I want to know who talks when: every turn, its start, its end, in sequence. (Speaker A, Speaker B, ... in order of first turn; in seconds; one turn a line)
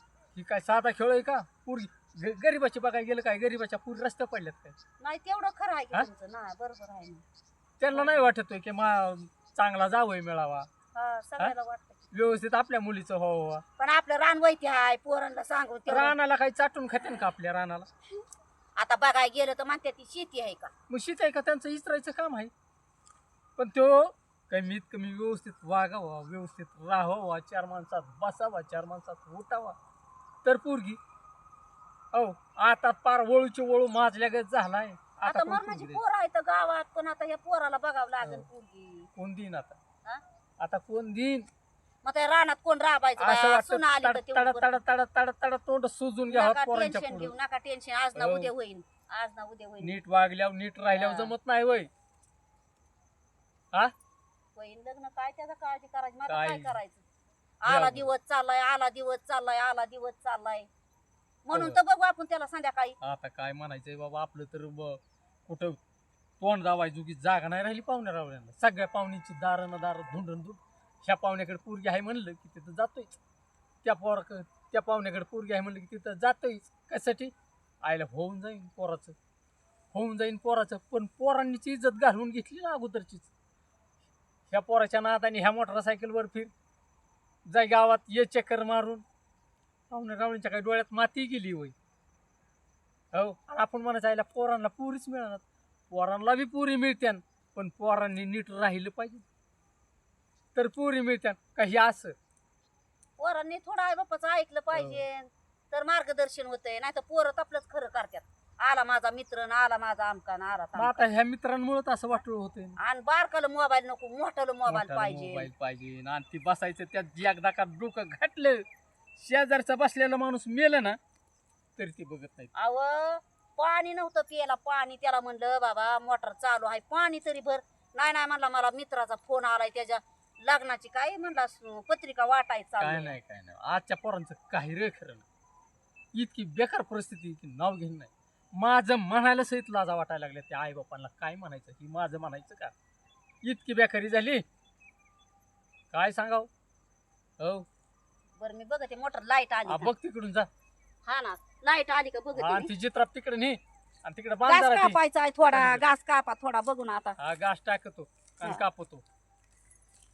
Speaker A: 0.3-4.8
Speaker B: 5.0-7.2
Speaker A: 7.8-10.7
Speaker B: 7.9-8.3
Speaker B: 10.9-12.1
Speaker A: 12.1-13.6
Speaker B: 13.8-16.1
Speaker A: 15.9-17.9
Speaker B: 18.8-20.7
Speaker A: 20.9-22.5
Speaker A: 23.6-29.7
Speaker A: 30.4-31.0
Speaker A: 32.1-36.0
Speaker B: 35.2-39.1
Speaker A: 38.2-38.5
Speaker A: 39.1-39.8
Speaker A: 40.6-41.5
Speaker B: 42.0-44.8
Speaker A: 43.2-47.3
Speaker B: 46.3-50.0
Speaker A: 48.1-48.5
Speaker A: 49.8-51.9
Speaker B: 50.9-51.3
Speaker B: 54.5-57.0
Speaker A: 56.3-56.8
Speaker B: 57.6-60.7
Speaker A: 57.6-58.1
Speaker B: 61.4-63.0
Speaker A: 61.5-61.8
Speaker A: 63.0-65.8
Speaker A: 66.4-73.2
Speaker A: 73.8-79.2
Speaker A: 79.9-83.3
Speaker A: 84.5-86.5
Speaker A: 87.5-89.0
Speaker A: 89.9-91.7
Speaker A: 93.1-99.2
Speaker A: 100.5-102.1
Speaker B: 103.2-111.1
Speaker A: 104.7-105.0
Speaker A: 110.7-112.8
Speaker B: 112.8-115.5
Speaker A: 114.7-118.6
Speaker A: 119.2-121.0
Speaker A: 121.8-122.5
Speaker B: 122.5-133.2
Speaker A: 132.8-135.2
Speaker A: 136.1-142.7
Speaker A: 143.4-144.4
Speaker A: 145.9-146.5
Speaker A: 147.4-147.7
Speaker B: 148.4-149.9
Speaker A: 149.7-150.5
Speaker B: 151.0-152.7
Speaker A: 152.3-155.0
Speaker B: 154.5-157.2
Speaker A: 155.5-155.8
Speaker A: 157.2-159.0